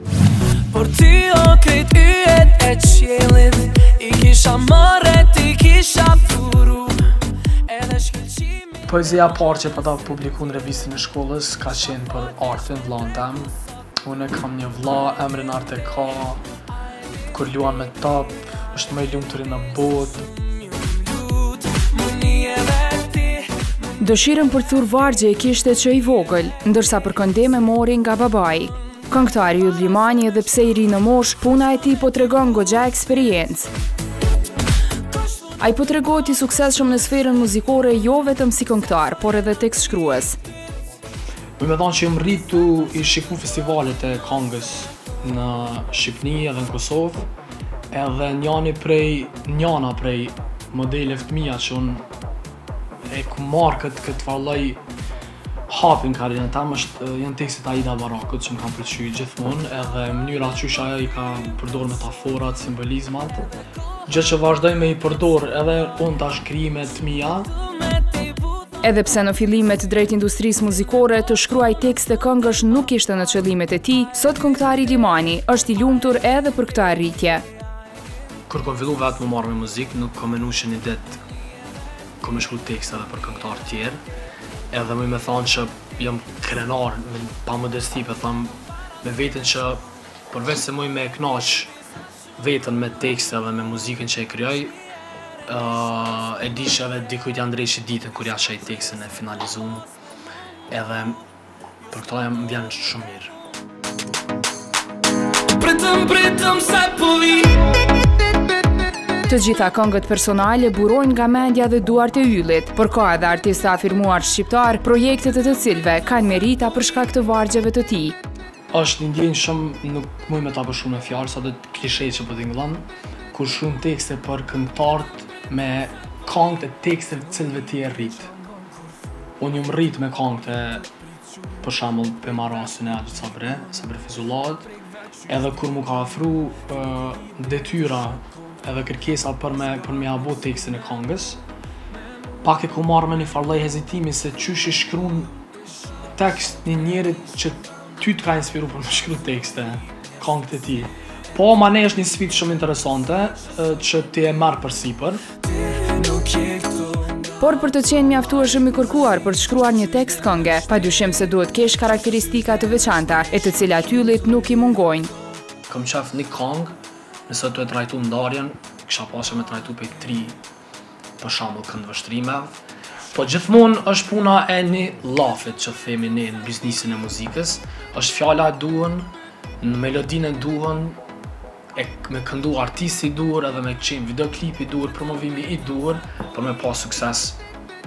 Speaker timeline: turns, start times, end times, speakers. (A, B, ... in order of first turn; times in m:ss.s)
0:00.7-0:07.2 A
0:07.7-0:08.6 A
0:08.8-0:16.4 B
0:17.3-0:20.3 B
0:21.6-0:23.5 A
0:24.0-0:33.7 C
0:35.6-0:40.4 C
0:41.6-0:47.3 B
0:47.9-0:52.0 B
0:53.1-0:54.8 B
0:55.7-1:03.4 B
1:04.1-1:07.5 B
1:08.8-1:17.4 C
1:18.5-1:21.2 B
1:22.2-1:24.0 B
1:24.7-1:31.7 B
1:32.4-1:34.8 B
1:35.5-1:39.8 B
1:40.7-1:41.2 B
1:41.9-1:43.3 B
1:45.6-1:47.7 A
1:49.3-1:58.2 C
1:58.7-2:08.3 B
2:09.4-2:10.8 B
2:11.6-2:14.7 B
2:15.3-2:21.4 B
2:22.4-2:25.3 B
2:26.2-2:35.2 B
2:35.7-2:37.1 A
2:37.4-2:45.1 C
2:45.7-2:46.7 B
2:47.3-2:50.4 B
2:51.2-2:52.6 B
2:53.1-3:01.0 B
3:01.7-3:07.4 B